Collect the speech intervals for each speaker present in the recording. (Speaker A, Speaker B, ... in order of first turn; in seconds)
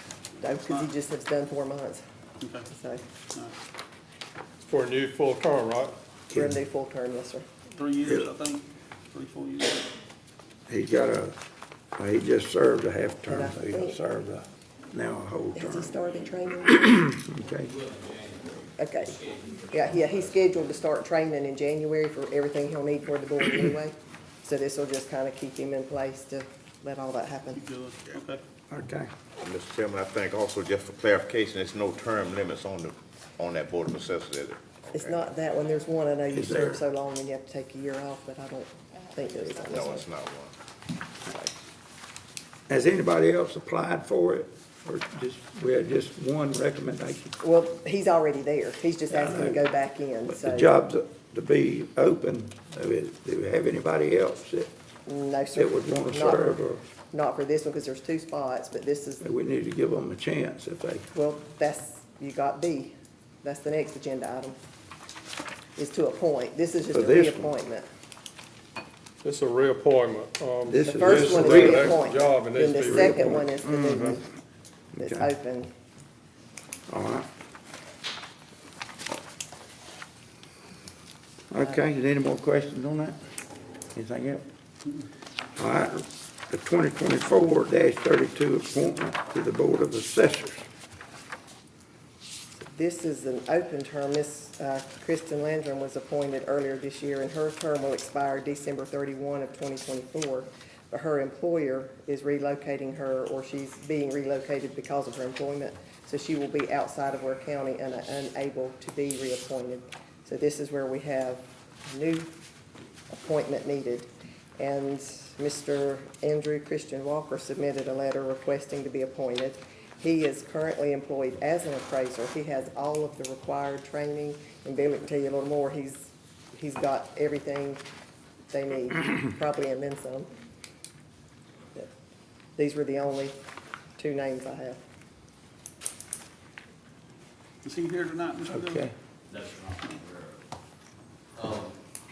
Speaker A: 0.4-2.0, 2.6-3.0, 6.3-7.5, 13.3-14.0, 15.6-17.1, 18.8-19.2, 19.7-27.6, 34.9-40.0, 47.4-50.7, 55.1-59.3, 61.1-64.6, 65.8-67.9, 70.8-74.3, 75.0-75.7, 92.6-112.3, 113.1-127.8, 128.5-130.3, 132.6-133.3, 134.0-134.8
Speaker B: 0.6-0.9, 2.4-2.7, 7.7-9.9, 27.5-28.4, 137.6-138.9
Speaker C: 4.7-6.0, 69.2-74.2
Speaker D: 6.3-6.6, 10.7-11.3, 12.0-15.9, 16.6-17.7, 28.7-29.1, 36.3-36.8, 42.7-47.4, 49.1-49.6, 50.3-54.7, 55.6-56.8, 59.2-61.1, 66.9-67.5, 70.7-72.0, 72.6-73.9, 75.0-75.3, 76.9-77.3, 81.5-83.2, 83.9-84.5, 85.6-90.6, 138.5-138.9
Speaker E: 17.7-20.4, 139.3-140.4, 141.4-141.8
Speaker F: 29.4-35.2, 39.7-40.5